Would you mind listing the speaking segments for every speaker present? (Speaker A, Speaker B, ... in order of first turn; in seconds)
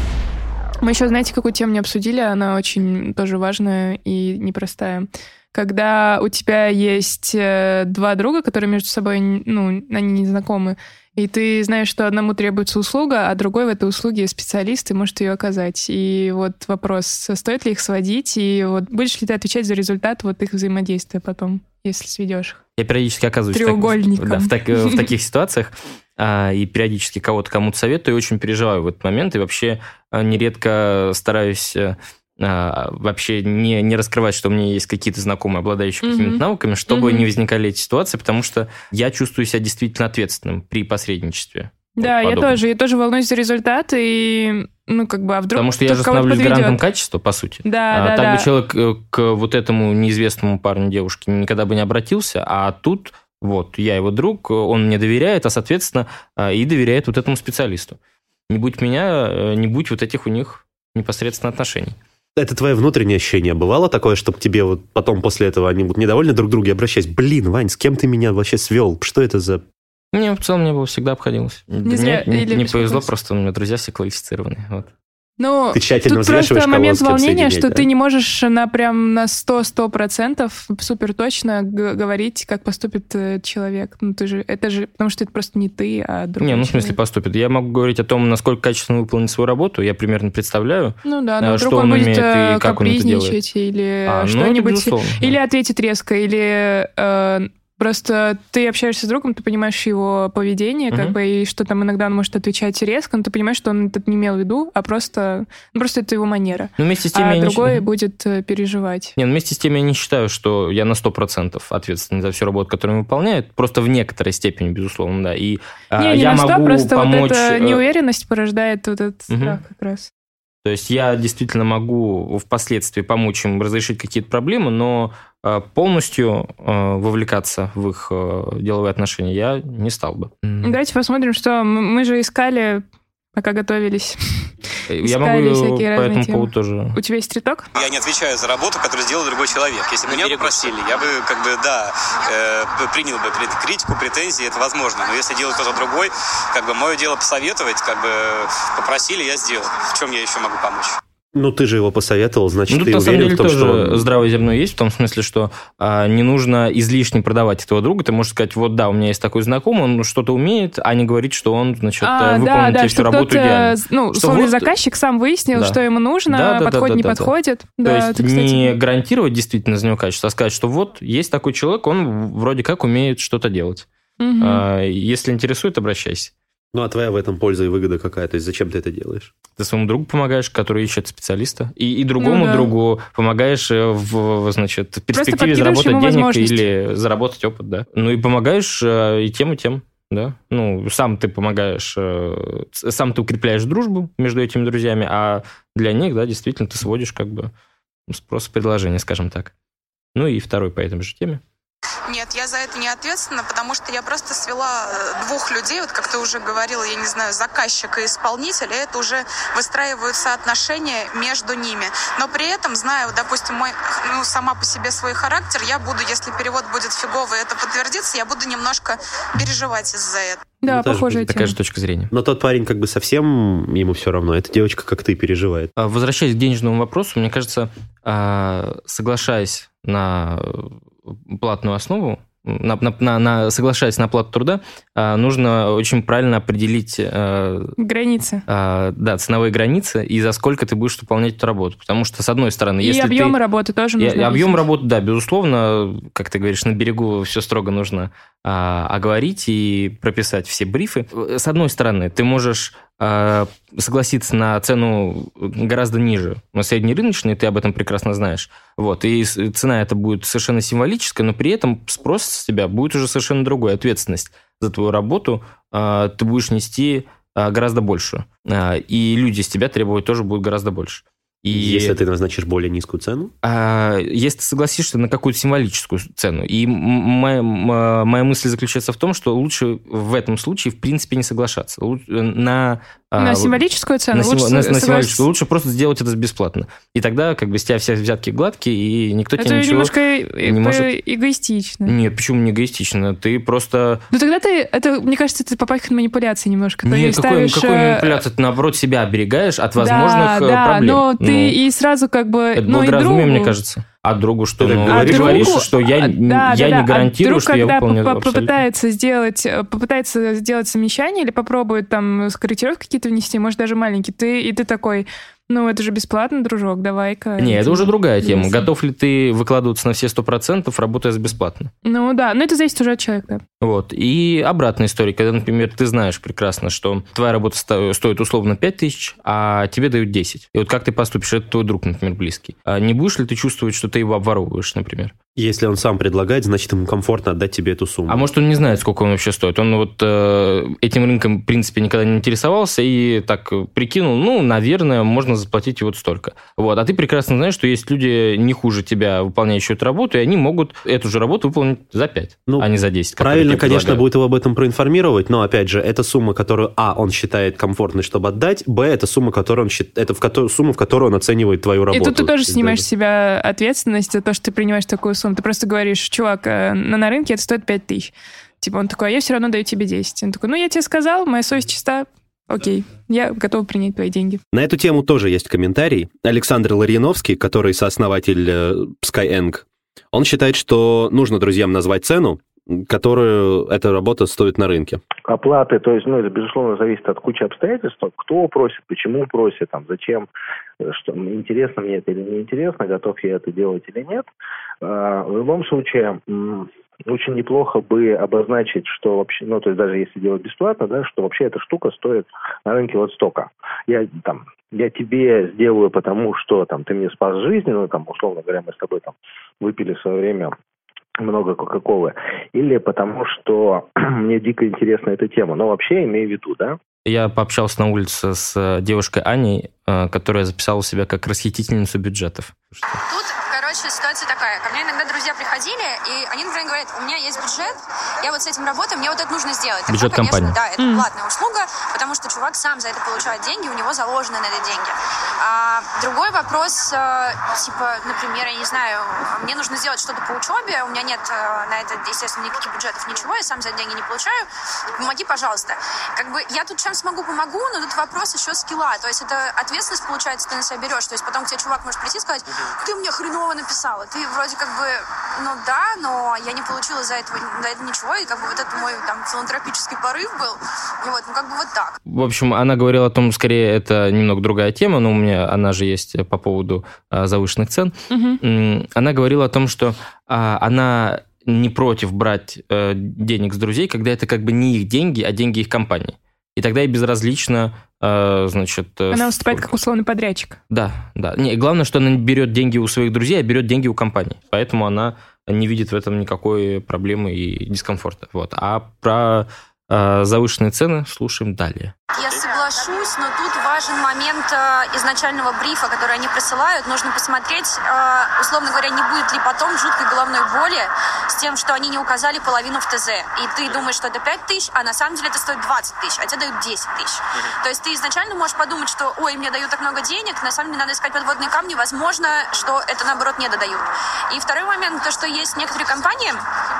Speaker A: 0.8-22.6, 23.5-25.0, 36.0-37.3, 42.0-46.8, 47.6-48.5, 71.8-73.1, 75.4-87.0, 91.0-109.1, 116.0-120.1, 130.6-132.8, 133.3-134.5, 135.0-137.7, 162.0-168.7, 174.2-174.6, 182.2-182.7, 185.1-186.6, 220.6-221.6, 237.8-238.4, 242.8-244.6, 283.2-285.2, 289.4-291.9, 294.1-298.2, 299.8-303.5, 304.9-318.7, 321.9-323.4, 361.9-374.4, 430.8-431.1, 468.1-468.4, 479.1-480.6
Speaker B: 22.8-42.6, 45.5-58.0, 58.5-62.0, 70.1-74.9, 86.4-93.4, 94.1-95.4, 106.8-107.8, 109.2-117.8, 119.3-119.6, 120.6-130.8, 134.9-136.9, 152.7-164.7, 165.5-173.9, 174.4-176.3, 179.6-197.5, 198.1-199.5, 200.1-201.4, 221.2-222.1, 225.8-237.7, 238.5-243.4, 244.0-271.9, 273.4-283.6, 284.1-289.9, 290.4-290.9, 291.9-294.0, 296.9-301.6, 302.6-308.6, 317.4-321.7, 323.6-335.1, 338.1-354.0, 417.1-422.8, 429.9-430.6, 462.1-479.7, 480.7-491.9
Speaker C: 62.4-69.6, 75.7-77.9, 151.3-154.1, 176.7-179.3, 220.7-221.1, 222.1-225.7, 271.5-273.3, 304.6-305.6, 335.4-338.2, 352.5-362.8, 374.5-385.0
Speaker D: 137.7-150.9
Speaker E: 202.1-220.5
Speaker F: 385.3-390.3, 390.8-394.2, 394.8-410.5, 411.2-416.8
Speaker G: 423.1-444.4, 444.9-461.9, 492.1-516.4